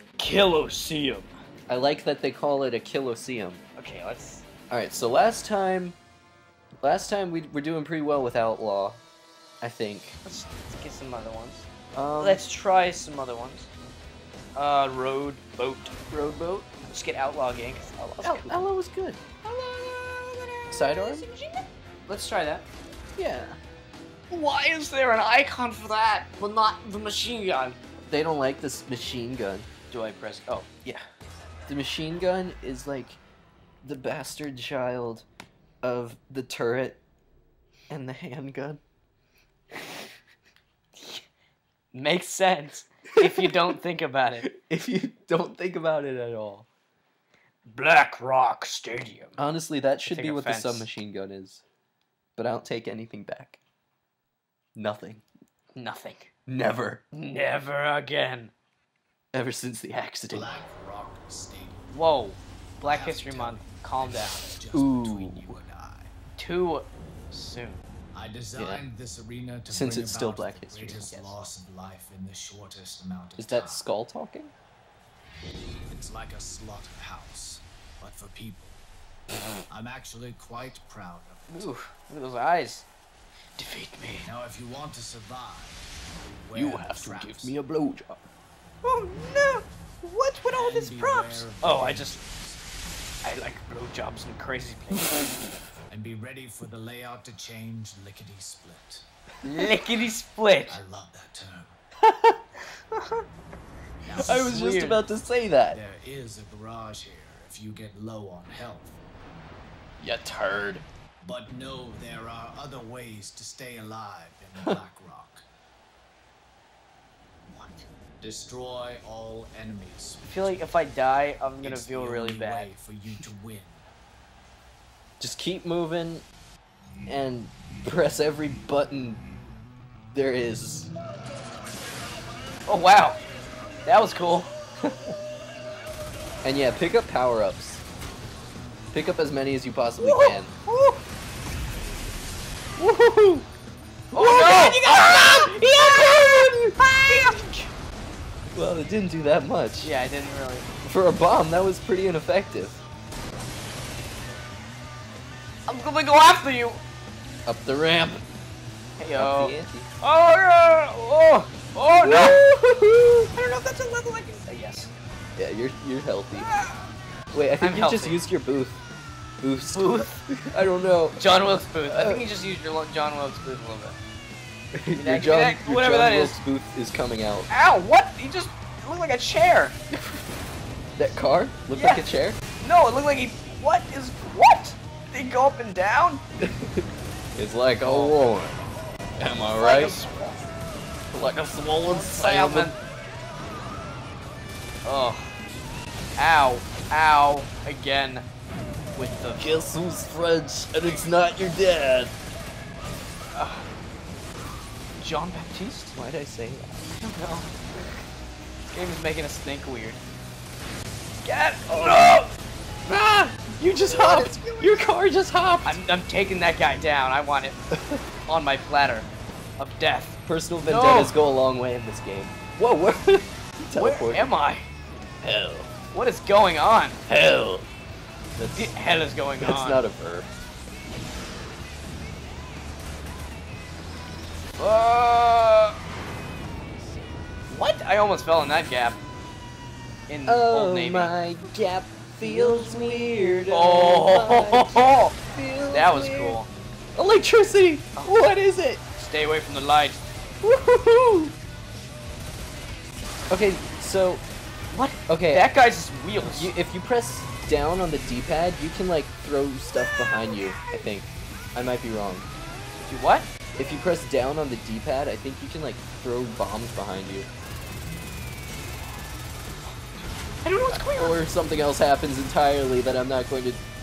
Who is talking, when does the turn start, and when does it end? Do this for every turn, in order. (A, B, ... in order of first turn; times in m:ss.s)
0:00.2-0:01.3 A
0:01.7-0:03.6 B
0:03.8-0:04.4 A
0:04.7-0:06.0 B
0:06.8-0:09.0 B
0:09.6-0:10.2 B
0:10.2-0:11.7 A
0:11.9-0:12.4 B
0:12.2-0:13.7 A
0:14.6-0:18.7 A
0:18.2-0:19.2 B
0:19.4-0:22.6 A
0:20.7-0:21.3 B
0:23.2-0:23.6 B
0:24.3-0:27.8 A
0:28.0-0:29.7 B
0:29.9-0:30.7 A
0:31.7-0:33.2 B
0:33.8-0:35.2 B
0:35.8-0:37.0 B
0:37.9-0:38.8 B
0:41.9-0:44.5 A
0:43.2-0:43.5 B
0:44.5-0:46.7 B
0:47.7-0:49.4 A
0:49.4-0:51.6 B
0:50.1-0:50.9 A
0:52.4-0:53.6 B
0:54.8-0:55.2 B
0:55.8-0:56.3 A
0:56.5-0:57.0 B
0:57.1-0:58.5 A
0:59.3-1:00.5 B
1:00.3-1:01.8 C
1:01.9-1:04.5 A
1:02.8-1:06.1 C
1:04.7-1:05.6 B
1:06.4-1:07.8 A
1:08.1-1:13.9 C
1:08.6-1:08.8 B
1:09.7-1:11.1 B
1:13.4-1:14.5 B
1:15.9-1:18.8 C
1:19.7-1:21.7 C
1:21.5-1:22.9 A
1:23.6-1:24.3 A
1:24.2-1:25.8 C
1:26.4-1:27.6 C
1:26.5-1:28.2 B
1:28.8-1:32.2 A
1:30.5-1:32.6 C
1:33.2-1:35.1 A
1:35.9-1:39.1 C
1:39.4-1:40.8 A
1:40.7-1:41.8 C
1:42.0-1:42.4 B
1:42.9-1:43.2 A
1:44.0-1:44.4 C
1:44.2-1:45.8 B
1:44.2-1:45.0 A
1:45.7-1:49.0 C
1:50.0-1:50.8 B
1:51.2-1:55.4 C
1:57.5-2:00.6 C
2:00.3-2:02.7 A
2:01.6-2:03.9 C
2:05.2-2:06.2 B
2:07.1-2:09.2 B
2:10.1-2:10.9 B
2:12.7-2:13.2 A
2:13.8-2:14.5 A
2:14.9-2:15.1 B
2:16.4-2:17.8 B
2:18.9-2:20.5 B
2:20.0-2:21.0 A
2:22.8-2:23.5 B
2:24.1-2:27.4 B
2:24.1-2:25.6 A
2:26.8-2:27.7 A
2:28.5-2:29.9 B
2:29.8-2:30.6 A
2:30.8-2:32.8 B
2:35.7-2:36.8 A
2:37.5-2:38.2 B
2:39.0-2:42.4 A
2:39.2-2:39.9 B
2:42.0-2:44.3 B
2:44.4-2:44.9 A
2:45.4-2:46.5 B
2:46.4-2:46.8 A
2:47.3-2:48.8 B
2:47.6-2:48.2 A
2:49.4-2:51.3 B
2:49.7-2:50.2 A
2:51.2-2:54.0 A
2:51.8-2:52.3 B
2:54.7-2:57.5 B
2:55.0-2:56.4 A
2:57.5-2:59.8 A
2:59.9-3:00.2 B
3:01.0-3:02.4 B
3:01.7-3:06.2 A
3:06.4-3:08.6 B
3:07.8-3:08.2 A
3:09.2-3:10.0 B
3:09.6-3:10.4 A
3:11.1-3:12.7 B
3:11.8-3:12.8 A
3:14.8-3:15.3 A
3:16.2-3:18.2 A
3:19.0-3:19.4 A
3:19.4-3:22.1 B
3:23.4-3:23.7 A
3:25.0-3:26.0 A
3:25.9-3:26.9 B
3:27.0-3:27.5 A
3:28.7-3:30.0 A
3:31.2-3:32.4 A
3:31.7-3:32.2 B
3:32.9-3:35.8 B
3:33.6-3:34.7 A
3:35.6-3:37.6 A
3:37.7-3:38.0 B
3:38.3-3:41.2 A
3:40.2-3:44.3 B
3:43.8-3:44.7 A
3:45.2-3:45.7 B
3:45.9-3:47.0 A
3:47.1-3:47.7 B
3:48.4-3:48.7 B
3:48.6-3:49.8 A
3:49.4-3:50.3 B
3:54.6-3:55.8 A
3:57.5-3:59.0 A
4:00.1-4:01.1 A
4:00.3-4:06.4 B
4:02.2-4:05.1 A
4:05.7-4:06.5 A
4:07.0-4:08.8 B
4:09.0-4:10.0 A
4:10.4-4:11.3 B
4:13.3-4:14.2 B
4:14.7-4:16.5 A
4:15.1-4:15.5 B
4:16.2-4:22.3 B
4:22.9-4:23.3 A
4:23.6-4:27.3 B
4:30.4-4:31.2 A
4:30.7-4:33.6 B